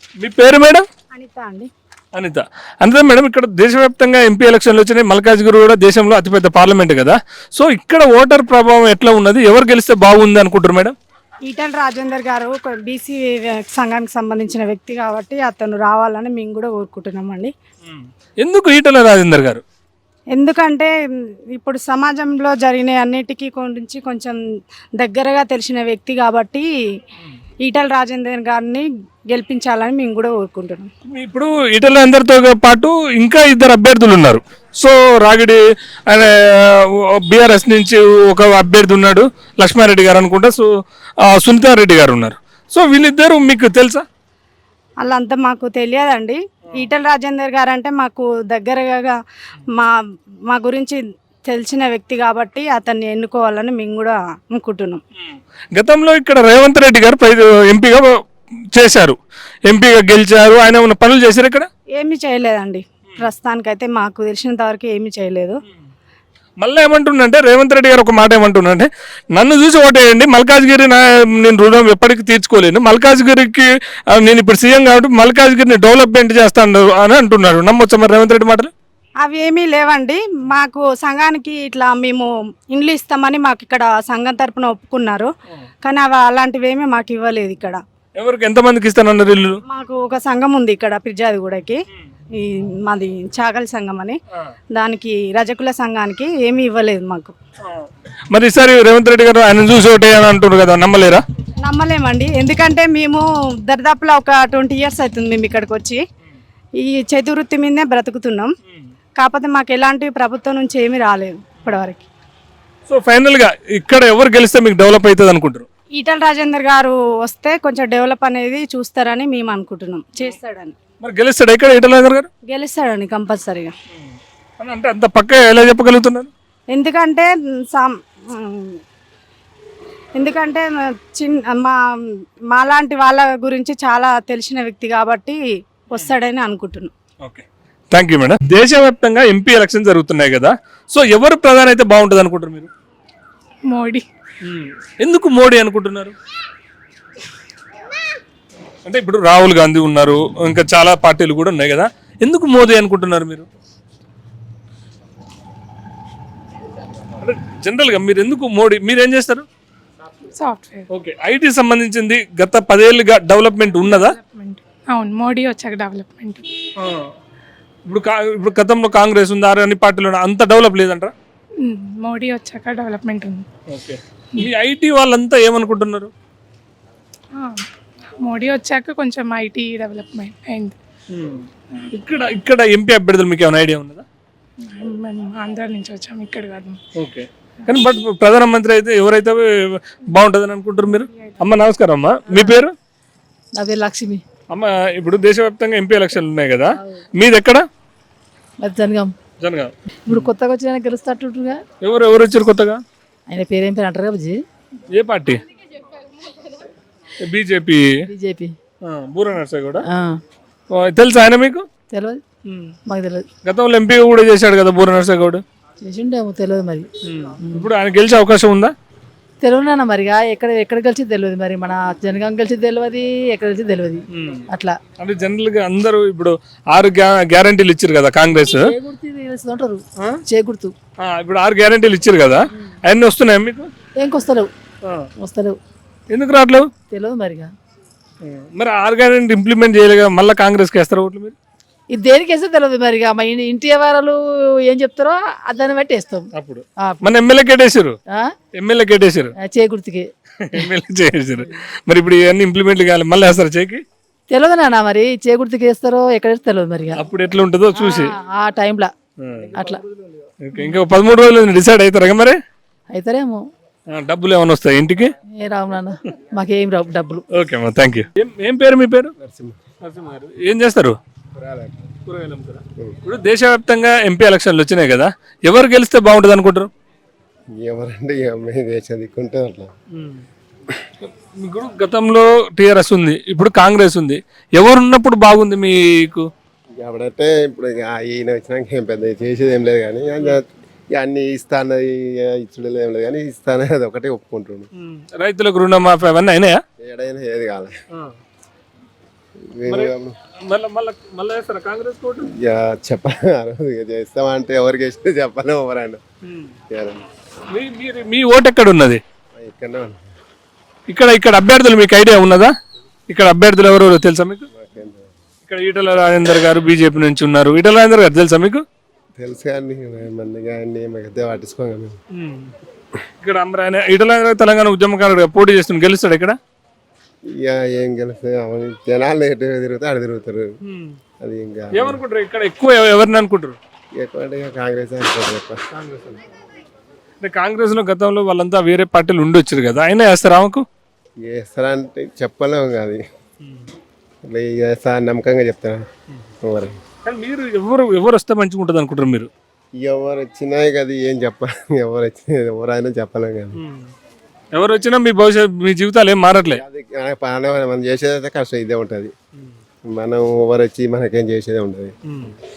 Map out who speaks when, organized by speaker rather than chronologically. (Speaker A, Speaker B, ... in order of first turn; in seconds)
Speaker A: 0.2-0.8, 2.1-10.9, 17.8-19.6, 31.0-40.7, 41.2-44.0, 55.2-58.1, 58.7-61.7, 66.6-78.7, 88.2-89.6, 97.6-101.2, 112.9-115.7, 121.0-122.3, 123.9-126.3, 137.2-142.7, 144.4-146.1, 148.8-153.4, 157.2-159.4, 160.9-164.2, 166.8-167.1, 167.9-171.1, 173.7-176.1, 181.1-184.0, 186.9-192.7, 194.5-197.6, 199.4-200.3, 201.8-202.8, 204.9-205.4, 207.2-207.9, 208.8-209.8, 210.7-211.6, 212.4-212.7, 213.4-215.4, 217.0-218.7, 224.1-224.4, 225.0-228.7, 231.0-233.7, 234.8-235.1, 236.1-236.7, 238.2-241.3, 246.3-248.0, 248.5-249.3, 250.4-253.8, 256.9-258.1, 259.2-259.5, 260.4-262.4, 263.9-265.1, 267.3-269.1, 269.8-270.9, 272.1-276.7, 279.9-280.2, 281.4-286.3, 294.8-296.6, 300.4-302.3, 306.2-306.5, 307.5-309.0, 310.9-312.5, 313.1-314.4, 315.5-318.6, 322.1-322.5, 323.2-326.4, 330.6-331.0, 331.7-333.6, 335.7-336.2, 337.2-340.6, 343.4-343.7, 347.0-349.3, 353.6-353.9, 354.5-356.6, 362.1-362.3
Speaker B: 1.1-1.7, 11.4-13.2, 13.7-17.5, 20.4-20.9, 21.6-24.3, 25.0-26.7, 27.6-28.8, 29.3-30.9, 45.0-49.1, 50.5-55.0, 62.0-65.5, 79.2-85.3, 85.8-87.8, 89.7-91.8, 92.4-94.1, 94.8-97.3, 101.7-106.0, 106.8-108.5, 109.2-112.0, 116.0-120.7, 122.5-123.7, 126.7-128.8, 130.2-131.7, 132.5-135.4, 135.9-136.9
Speaker C: 143.7-144.0, 160.4-160.9, 163.8-166.5, 171.6-173.4, 177.3-177.7, 178.2-180.8, 184.6-186.8
Speaker D: 192.3-192.6, 193.5-194.2, 196.8-197.0, 198.6-199.1, 200.1-201.6, 203.3-204.4, 208.1-208.5, 209.8-210.2, 211.9-212.2, 212.8-213.2, 215.8-216.9, 217.4-217.7, 219.4-224.8, 228.5-230.7, 233.9-234.5, 235.2-235.6, 236.9-237.5, 241.9-247.0, 248.1-248.3, 249.4-250.7, 254.3-257.0, 257.7-258.9, 259.5-259.8, 262.9-263.4, 265.3-267.2
Speaker E: 269.2-269.6, 271.4-271.8, 277.6-279.7, 286.8-294.7, 296.8-297.7, 299.5-300.1, 302.3-306.0, 306.7-307.0, 309.4-310.0, 314.5-315.1, 319.2-321.9, 327.4-330.5, 331.2-332.0, 334.0-335.6, 341.2-343.0, 344.3-345.8, 346.4-346.8, 349.8-353.6, 356.6-359.1, 359.9-361.9